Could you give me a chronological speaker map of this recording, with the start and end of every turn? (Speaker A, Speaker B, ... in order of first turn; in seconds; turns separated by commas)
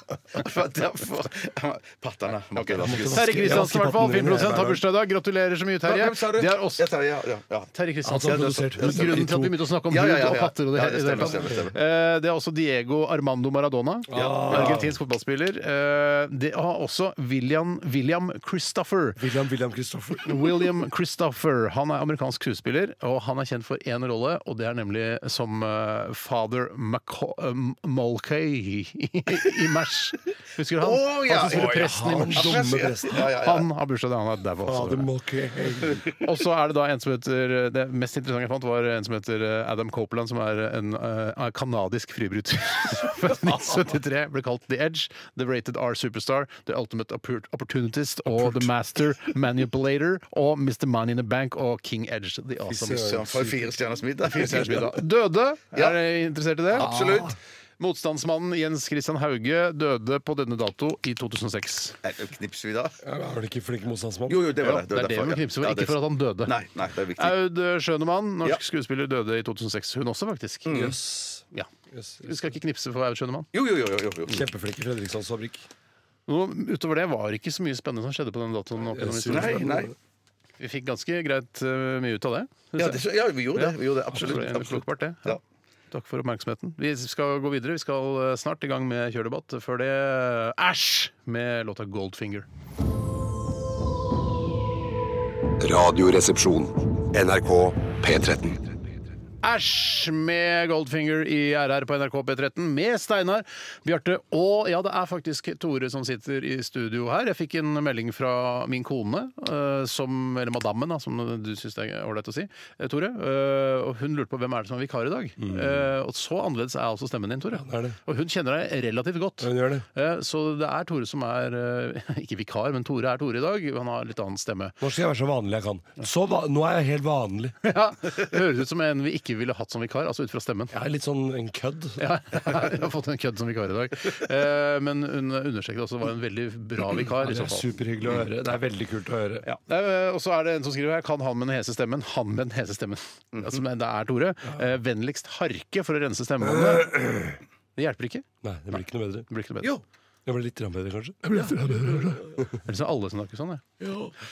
Speaker A: 0.3-3.7, Speaker B: 2.5-6.9, Speaker C: 2.8-4.8, Speaker A: 5.8-7.7, Speaker B: 7.7-19.2, Speaker C: 8.1-9.6, Speaker A: 8.2-9.2, Speaker A: 9.9-11.8, Speaker C: 11.2-11.6, Speaker C: 14.1-15.0, Speaker A: 14.1-14.8, Speaker C: 19.2-20.7, Speaker B: 20.2-35.1, Speaker A: 30.8-33.7, Speaker C: 31.5-33.3, Speaker C: 34.6-36.0, Speaker A: 35.9-36.2, Speaker B: 36.1-53.2, Speaker C: 52.7-53.7, Speaker A: 52.8-55.0, Speaker B: 54.2-57.2, Speaker A: 56.7-57.3, Speaker C: 56.8-57.4, Speaker B: 57.8-62.0, Speaker A: 62.0-63.0, Speaker C: 63.0-64.4, Speaker A: 64.3-67.4, Speaker B: 64.6-66.6, Speaker B: 67.2-70.8, Speaker A: 70.7-71.0, Speaker C: 70.7-72.5, Speaker B: 72.2-73.5, Speaker A: 73.5-74.4, Speaker C: 74.3-75.7, Speaker B: 76.3-79.7, Speaker C: 78.9-80.0, Speaker A: 79.3-79.9, Speaker B: 80.6-83.0, Speaker A: 82.8-85.4, Speaker B: 83.5-85.4, Speaker B: 85.9-92.5, Speaker D: 95.6-98.7, Speaker B: 99.4-124.8, Speaker C: 115.4-115.9, Speaker C: 117.5-118.0, Speaker C: 119.4-119.9, Speaker C: 124.8-127.6, Speaker B: 127.6-130.7, Speaker C: 130.7-132.0, Speaker B: 132.0-137.7, Speaker C: 137.2-139.5, Speaker B: 139.6-146.9, Speaker A: 143.3-143.6, Speaker C: 146.4-147.4, Speaker B: 147.8-148.3, Speaker C: 148.4-149.3, Speaker B: 149.3-149.8, Speaker C: 150.3-152.6, Speaker B: 152.5-153.6